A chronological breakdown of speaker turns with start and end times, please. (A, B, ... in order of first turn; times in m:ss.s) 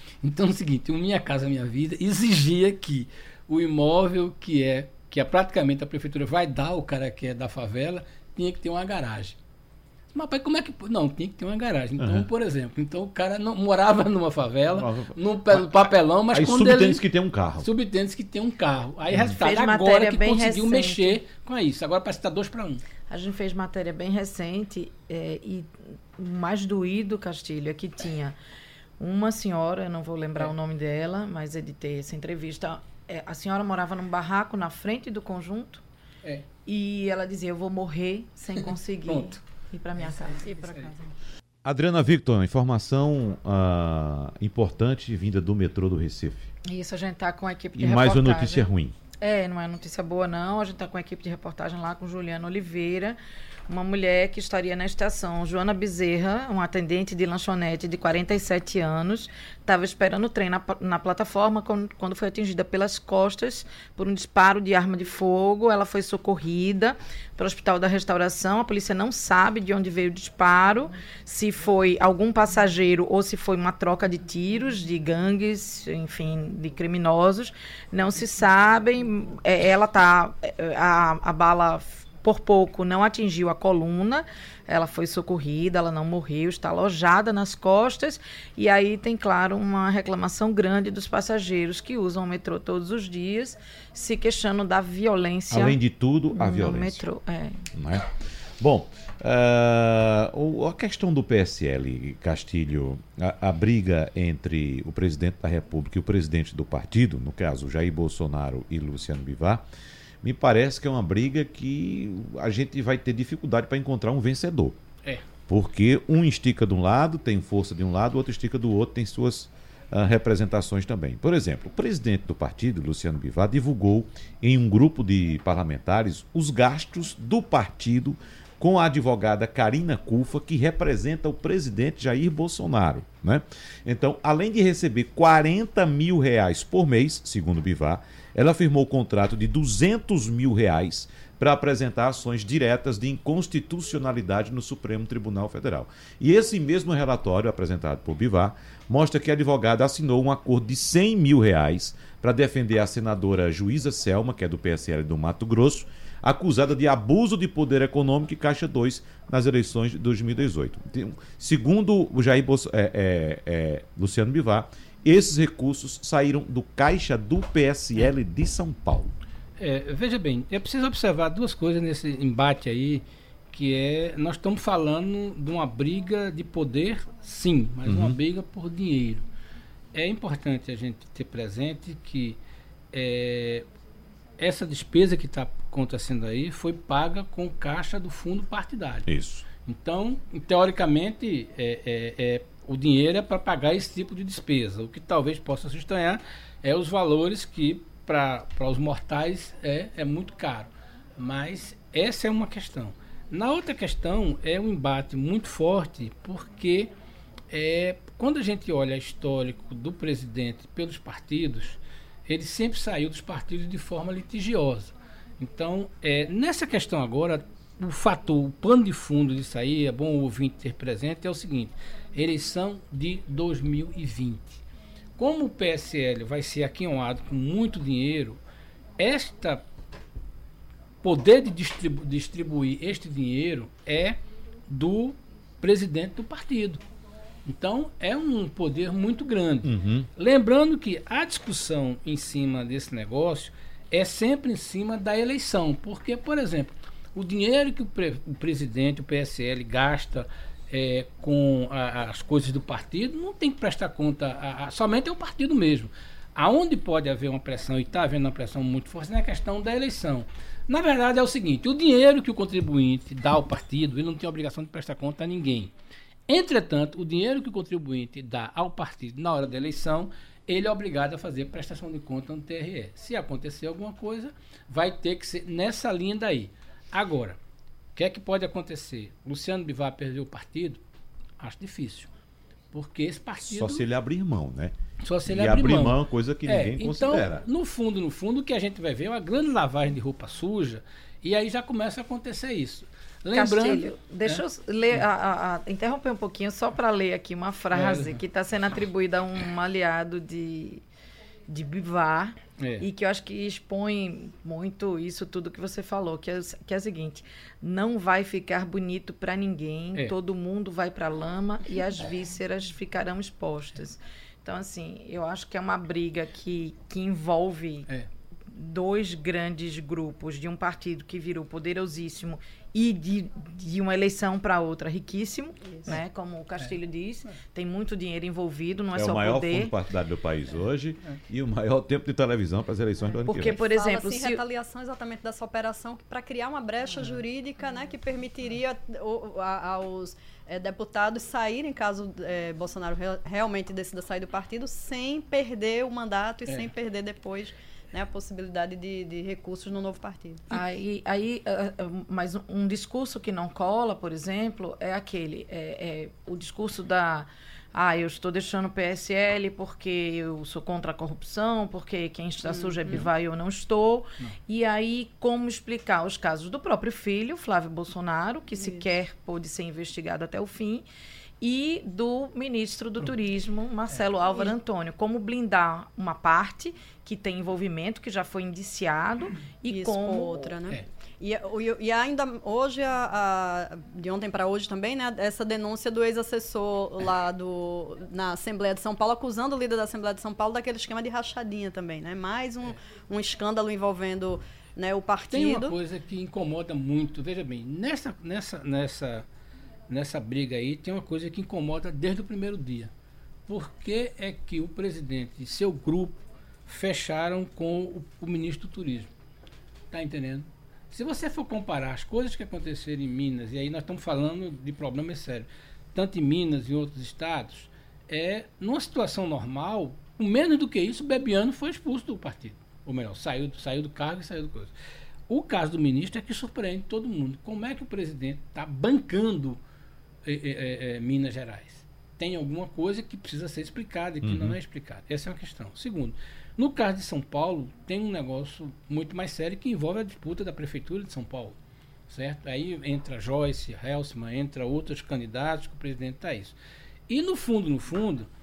0:00.2-0:09.4 A
0:10.1-0:17.0 A
0:12.0-0:12.2 B
0:14.7-0:17.7 B
0:17.6-0:22.8 A
0:19.2-0:21.2 C
0:23.1-0:28.4 C
0:29.0-0:35.8 C
0:36.6-0:40.6 C
0:38.6-0:39.4 A
0:40.0-0:40.9 A
0:40.4-0:41.0 D
0:41.6-0:46.5 B
0:46.6-0:48.6 C
0:47.7-0:48.9 B
0:49.2-0:53.2 C
0:53.7-1:35.8 C
1:35.5-1:37.0 B
1:36.3-1:37.7 C
1:37.7-1:49.6 B
1:50.2-1:54.8 B
1:55.5-2:49.1 B
2:49.6-2:59.2 A
2:57.8-2:58.2 B
2:59.9-3:02.4 A
3:02.9-3:03.6 A
3:04.4-3:09.1 A
3:09.0-3:09.4 B
3:09.6-3:26.9 A
3:27.5-3:44.6 A
3:45.2-3:48.4 A
3:49.0-3:49.6 A
3:51.0-3:56.8 A
3:57.4-4:25.7 A
3:59.6-4:00.1 B
4:26.3-4:37.4 A
4:38.0-4:40.8 A
4:41.4-4:42.1 A
4:42.7-4:43.8 A
4:43.4-4:44.7 B
4:45.0-4:54.4 A
4:45.2-4:47.4 B
4:53.3-5:00.8 C
4:57.7-4:58.2 A
5:01.5-5:17.9 C
5:02.6-5:02.8 A
5:18.5-5:29.7 C
5:28.9-5:33.6 B
5:33.2-5:34.4 C
5:33.5-5:50.6 D
5:46.4-5:46.7 A
5:50.5-6:10.8 C
6:02.4-6:03.1 D
6:08.5-6:08.8 D
6:11.4-6:20.5 C
6:19.7-6:35.8 D
6:35.3-6:39.2 A
6:39.9-6:42.9 A
6:43.5-6:49.1 A
6:49.9-7:04.7 A
7:05.3-7:09.6 A
7:10.2-7:21.6 A
7:14.2-7:14.6 B
7:22.1-7:26.6 A
7:27.1-7:28.3 A